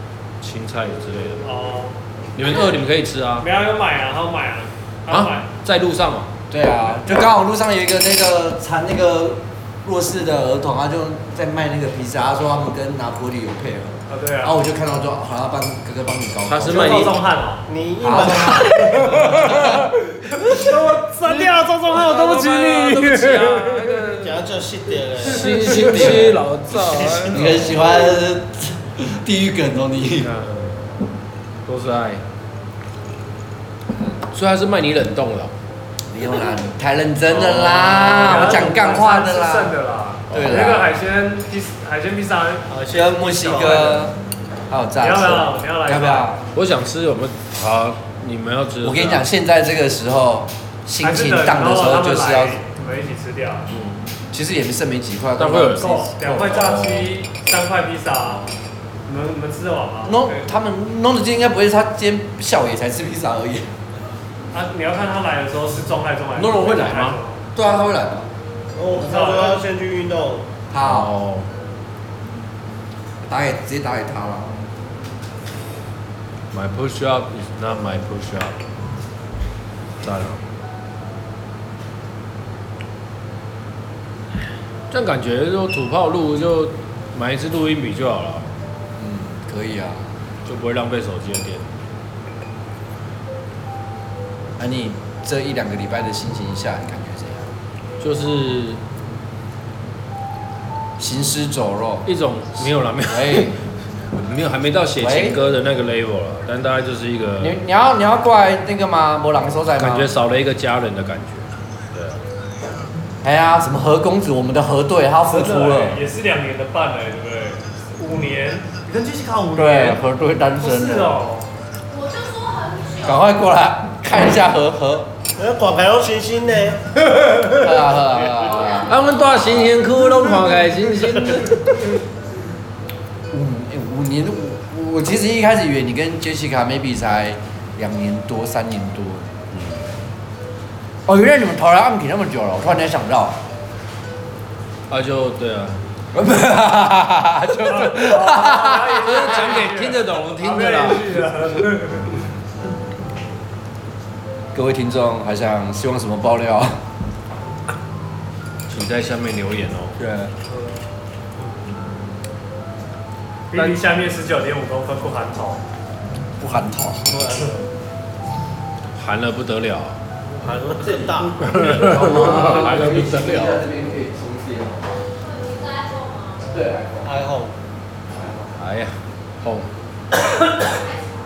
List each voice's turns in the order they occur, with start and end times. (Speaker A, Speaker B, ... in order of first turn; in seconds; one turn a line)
Speaker A: 0.4-1.5
Speaker B: 1.4-2.7
Speaker A: 2.4-3.5
Speaker B: 3.4-5.5
Speaker A: 5.1-6.3
Speaker C: 6.5-17.1
Speaker B: 14.1-14.6
Speaker A: 16.5-17.2
Speaker B: 16.6-24.1
Speaker D: 17.7-19.1
Speaker C: 18.0-19.8
Speaker A: 19.1-19.7
Speaker A: 21.2-24.4
Speaker D: 24.2-25.5
Speaker A: 25.2-27.8
Speaker B: 25.3-27.8
Speaker C: 25.6-26.4
Speaker C: 27.3-30.3
Speaker A: 30.2-31.0
Speaker A: 31.6-32.2
Speaker A: 34.3-35.5
Speaker C: 36.1-39.8
Speaker A: 37.2-38.6
Speaker B: 38.2-42.7
Speaker C: 40.3-40.9
Speaker D: 42.7-44.1
Speaker C: 42.9-44.2
Speaker C: 44.7-46.4
Speaker B: 45.0-46.4
Speaker A: 46.5-49.3
Speaker C: 48.8-52.6
Speaker B: 51.0-53.7
Speaker A: 53.7-54.0
Speaker C: 54.3-56.9
Speaker A: 55.4-55.9
Speaker B: 55.8-58.5
Speaker A: 56.6-57.1
Speaker B: 59.0-60.4
Speaker C: 60.1-63.7
Speaker B: 64.5-67.5
Speaker A: 66.3-67.2
Speaker C: 67.5-68.3
Speaker D: 68.7-70.5
Speaker B: 68.9-69.6
Speaker C: 70.7-71.1
Speaker A: 70.8-71.5
Speaker C: 73.3-74.6
Speaker A: 76.5-78.6
Speaker A: 80.0-80.4
Speaker A: 84.9-88.5
Speaker C: 89.0-90.1
Speaker A: 90.5-91.7
Speaker C: 94.6-97.5
Speaker A: 98.0-98.8
Speaker C: 101.0-102.1
Speaker A: 102.0-107.6
Speaker C: 103.1-103.5
Speaker C: 105.0-105.4
Speaker C: 107.4-110.1
Speaker A: 109.8-112.2
Speaker C: 113.2-116.0
Speaker B: 115.3-120.0
Speaker C: 119.5-121.2
Speaker B: 120.6-121.5
Speaker E: 121.9-123.2
Speaker C: 123.0-125.1
Speaker D: 125.3-126.8
Speaker C: 127.5-129.1
Speaker E: 128.4-129.8
Speaker A: 128.7-131.6
Speaker C: 133.3-139.3
Speaker A: 139.5-139.8
Speaker C: 141.1-143.4
Speaker A: 144.9-145.8
Speaker C: 146.1-149.6
Speaker B: 147.7-152.2
Speaker A: 149.1-151.0
Speaker C: 154.5-156.8
Speaker A: 158.7-160.0
Speaker C: 160.0-160.3
Speaker B: 163.5-165.6
Speaker C: 166.4-167.2
Speaker D: 167.1-167.6
Speaker A: 168.9-170.0
Speaker D: 170.4-172.1
Speaker A: 171.4-173.7
Speaker C: 171.8-175.0
Speaker E: 175.2-176.4
Speaker C: 176.4-177.2
Speaker D: 177.0-177.6
Speaker C: 178.1-178.6
Speaker A: 178.6-179.7
Speaker E: 180.8-181.2